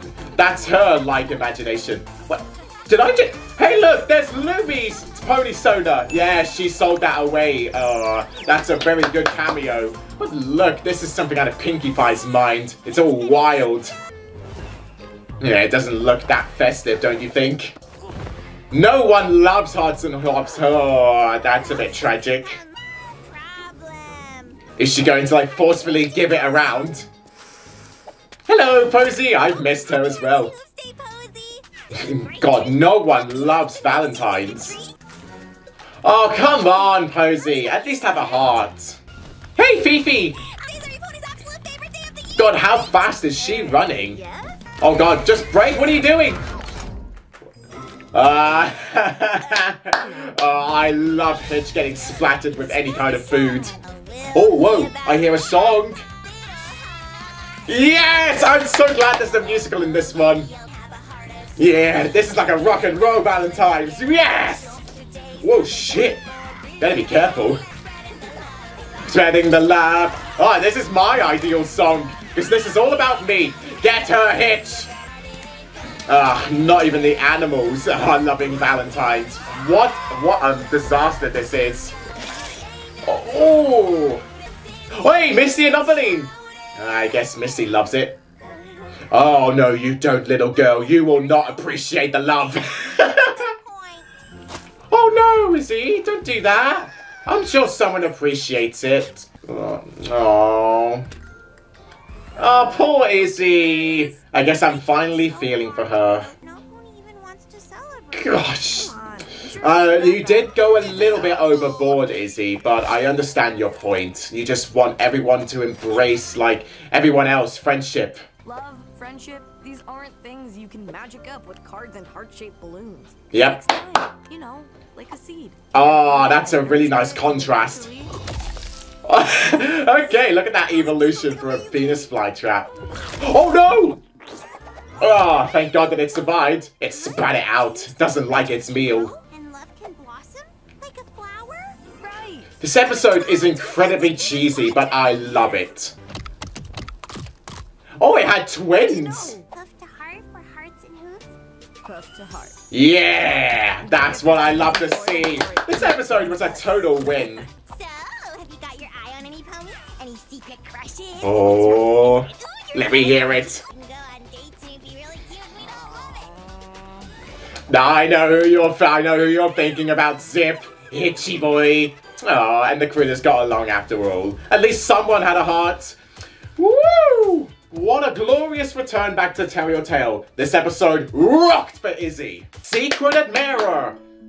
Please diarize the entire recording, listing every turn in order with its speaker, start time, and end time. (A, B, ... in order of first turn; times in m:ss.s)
0:00.4-0:14.0 A
0:15.4-0:17.8 A
0:18.7-0:22.6 A
0:21.5-0:24.7 B
0:24.8-0:27.1 A
0:26.2-0:26.5 B
0:28.5-0:30.5 A
0:29.7-0:34.9 B
0:31.9-0:34.8 A
0:36.0-0:39.0 A
0:37.6-0:38.6 B
0:39.6-0:40.5 A
0:40.4-0:44.5 B
0:42.4-0:44.2 A
0:44.8-0:46.4 A
0:48.1-0:53.7 A
0:52.2-0:55.9 B
0:54.3-0:56.0 A
0:56.5-0:56.9 B
0:57.7-1:00.5 A
0:58.3-1:02.8 B
1:01.6-1:04.8 A
1:03.8-1:06.7 B
1:05.4-1:06.3 A
1:06.8-1:07.6 A
1:07.6-1:09.0 B
1:09.0-1:14.9 A
1:16.1-1:22.0 A
1:22.6-1:23.1 B
1:23.0-1:24.3 A
1:24.2-1:26.7 B
1:24.9-1:28.2 A
1:29.1-1:33.5 A
1:31.4-1:34.1 B
1:34.9-1:41.1 A
1:42.4-1:46.3 A
1:42.4-1:49.2 B
1:48.1-1:48.9 A
1:48.9-1:50.6 C
1:49.6-1:58.2 A
1:50.6-1:52.0 B
1:58.4-2:08.1 C
2:03.3-2:03.6 A
2:05.7-2:07.9 A
2:09.0-2:14.0 A
2:10.7-2:12.1 B
2:15.0-2:19.1 A
2:17.1-2:21.9 B
2:22.0-2:22.5 C
2:22.6-2:26.0 A
2:23.0-2:25.6 B
2:28.0-2:29.4 A
2:28.8-2:31.3 B
2:31.8-2:32.6 C
2:32.7-2:37.5 A
2:33.8-2:36.6 C
2:36.4-2:46.4 B
2:41.2-2:43.6 A
2:47.7-2:56.0 A
2:56.6-3:04.0 A